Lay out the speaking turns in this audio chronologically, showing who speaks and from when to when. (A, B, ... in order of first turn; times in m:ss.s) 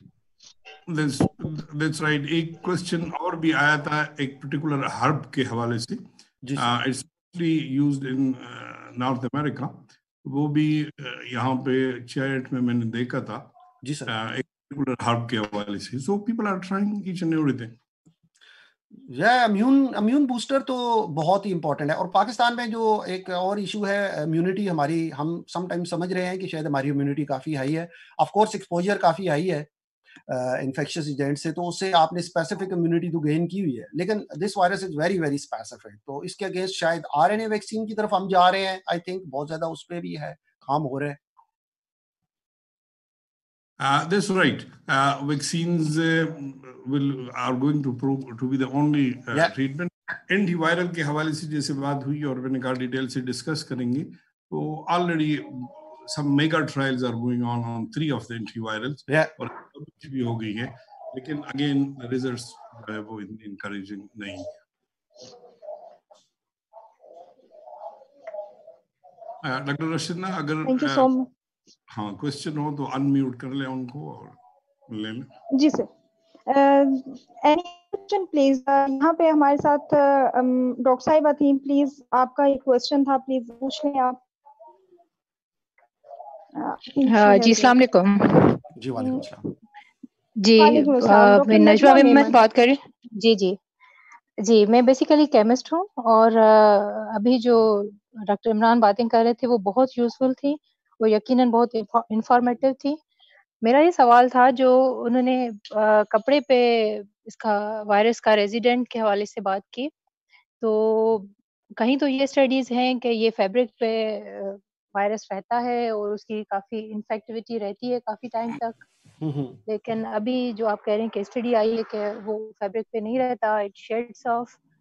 0:00.9-0:06.0 A
0:06.4-0:06.7 B
0:06.6-0:13.5 A
0:13.8-0:14.1 B
0:14.1-0:17.8 A
0:19.0-0:29.7 B
0:30.3-0:41.2 B
0:43.8-1:04.5 A
0:59.1-0:59.3 B
1:09.4-1:11.1 A
1:10.6-1:11.3 C
1:11.9-1:15.3 A
1:15.5-1:15.9 C
1:16.4-1:24.2 C
1:26.6-1:27.8 C
1:27.0-1:28.6 D
1:28.8-1:29.4 B
1:30.4-1:33.6 D
1:30.6-1:32.4 C
1:34.4-1:43.0 D
1:43.6-1:49.9 D
1:50.6-1:58.8 D
1:59.2-1:59.6 B
1:59.7-2:04.6 D